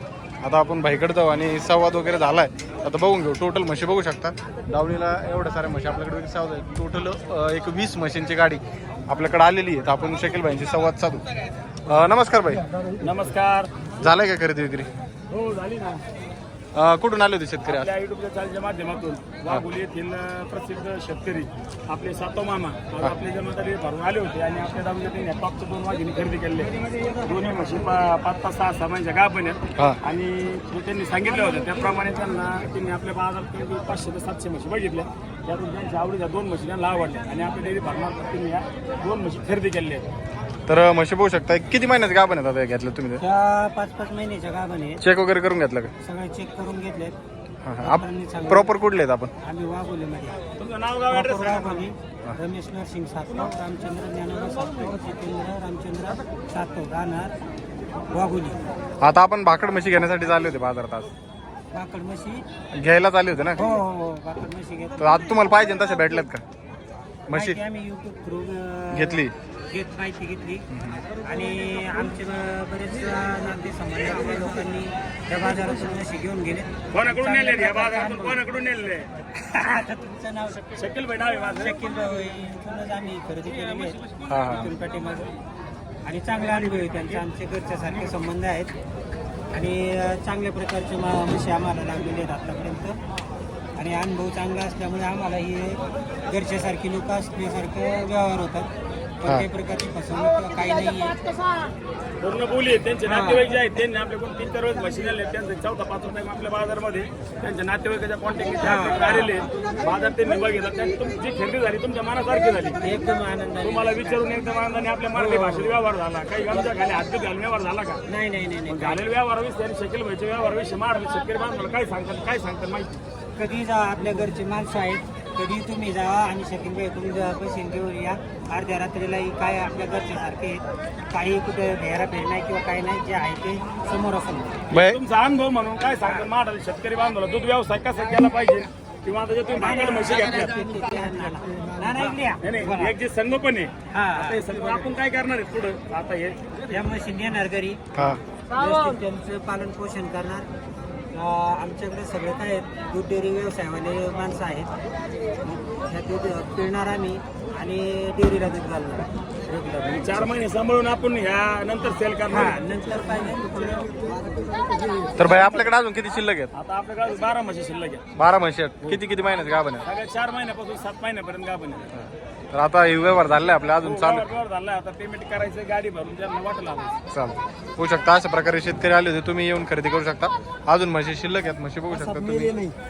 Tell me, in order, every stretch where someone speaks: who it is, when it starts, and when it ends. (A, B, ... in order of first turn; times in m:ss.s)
0:00.4-0:11.2 A
0:11.8-0:12.6 A
0:13.0-0:13.7 B
0:14.0-0:14.9 A
0:15.3-0:16.0 B
0:16.7-0:17.9 A
0:17.6-0:40.0 B
0:40.7-0:43.2 A
0:43.2-0:45.0 C
0:45.0-0:45.9 A
0:46.0-0:47.2 C
0:47.6-0:49.3 A
0:47.8-0:48.7 C
0:49.4-0:50.4 C
0:50.6-0:51.9 B
0:51.1-0:57.3 C
0:58.1-0:58.6 C
0:59.0-1:01.1 A
1:01.7-1:02.4 C
1:02.7-1:03.6 A
1:03.5-1:05.4 C
1:05.0-1:06.4 A
1:07.3-1:07.6 A
1:07.3-1:10.7 C
1:08.9-1:09.3 A
1:10.7-1:11.0 A
1:11.2-1:18.4 C
1:16.9-1:19.1 B
1:19.2-1:20.8 C
1:20.8-1:21.7 B
1:21.6-1:25.3 C
1:24.3-1:24.7 A
1:26.0-1:28.7 C
1:29.5-1:33.0 C
1:33.8-1:38.7 C
1:39.2-1:41.4 C
1:42.2-1:52.8 B
1:43.0-1:43.5 C
1:48.6-1:49.4 C
1:52.8-1:54.2 C
1:53.6-1:58.0 B
1:55.2-1:55.7 C
1:58.1-1:59.0 C
1:58.7-2:03.0 B
2:03.4-2:14.6 C
2:14.7-2:15.0 A
2:14.8-2:20.6 B
2:19.5-2:23.0 C
2:22.4-2:26.8 B
2:23.9-2:24.4 C
2:26.7-2:30.5 C
2:27.9-2:28.2 A
2:31.1-2:34.7 C
2:35.4-2:40.3 C
2:39.9-2:42.6 B
2:42.3-2:44.1 C
2:45.2-2:46.5 A
2:45.2-2:45.6 B
2:46.5-2:48.0 B
2:48.1-2:49.8 A
2:49.8-2:51.9 B
2:51.9-2:54.2 A
2:53.8-2:56.9 B
2:57.1-3:02.6 A